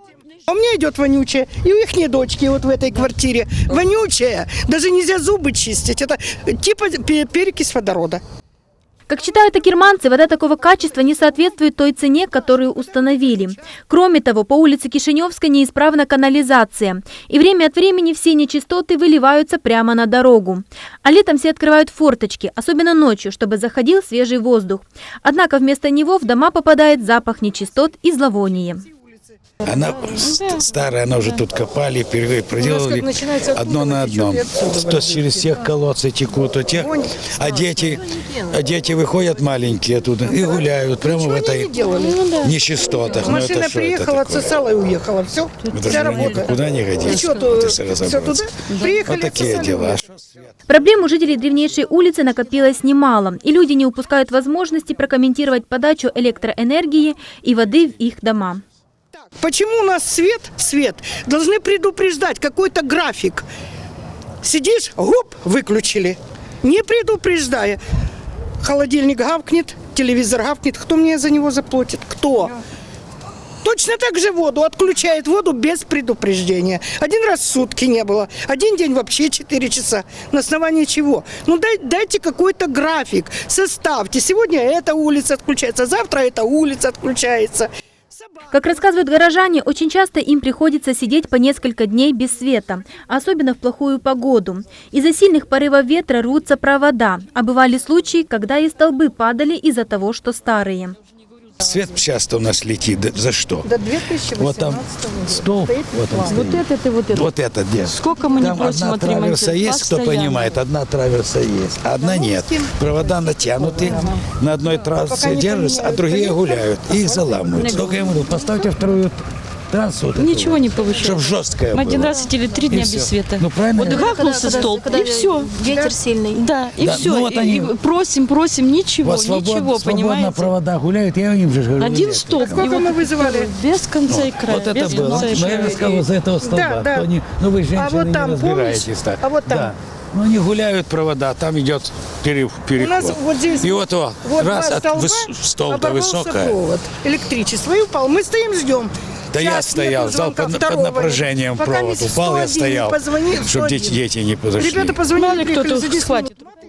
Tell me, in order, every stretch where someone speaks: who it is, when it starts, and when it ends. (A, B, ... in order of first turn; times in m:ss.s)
0:00.5-0:08.2 A
0:09.1-0:28.9 B
0:29.6-0:41.8 C
0:30.1-0:30.6 D
0:32.6-0:35.6 A
0:36.7-0:37.3 A
0:40.2-0:50.0 A
0:41.9-0:42.5 D
0:42.4-0:44.5 C
0:45.7-0:48.5 C
0:45.9-0:46.4 D
0:48.7-0:49.0 D
0:49.0-0:50.0 C
0:50.7-0:58.6 B
0:59.2-1:03.5 A
1:04.4-1:07.8 A
1:08.6-1:12.6 A
1:13.6-1:27.7 A
1:28.5-1:41.0 B
1:41.6-1:43.7 C
1:43.6-1:46.5 A
1:44.3-2:04.1 C
1:46.3-1:47.3 D
1:47.9-1:50.6 D
1:52.0-1:54.2 A
1:53.8-1:54.1 D
1:55.0-1:58.1 A
1:57.8-1:58.3 D
2:00.2-2:05.6 D
2:03.8-2:06.4 E
2:04.3-2:05.0 B
2:05.6-2:06.0 A
2:06.3-2:10.5 D
2:06.8-2:07.7 C
2:09.0-2:12.7 C
2:11.8-2:16.0 D
2:12.4-2:13.5 A
2:14.1-2:26.6 C
2:14.9-2:17.1 A
2:17.8-2:19.7 A
2:22.8-2:34.0 A
2:29.3-2:35.0 C
2:34.6-2:36.3 A
2:35.2-2:36.3 D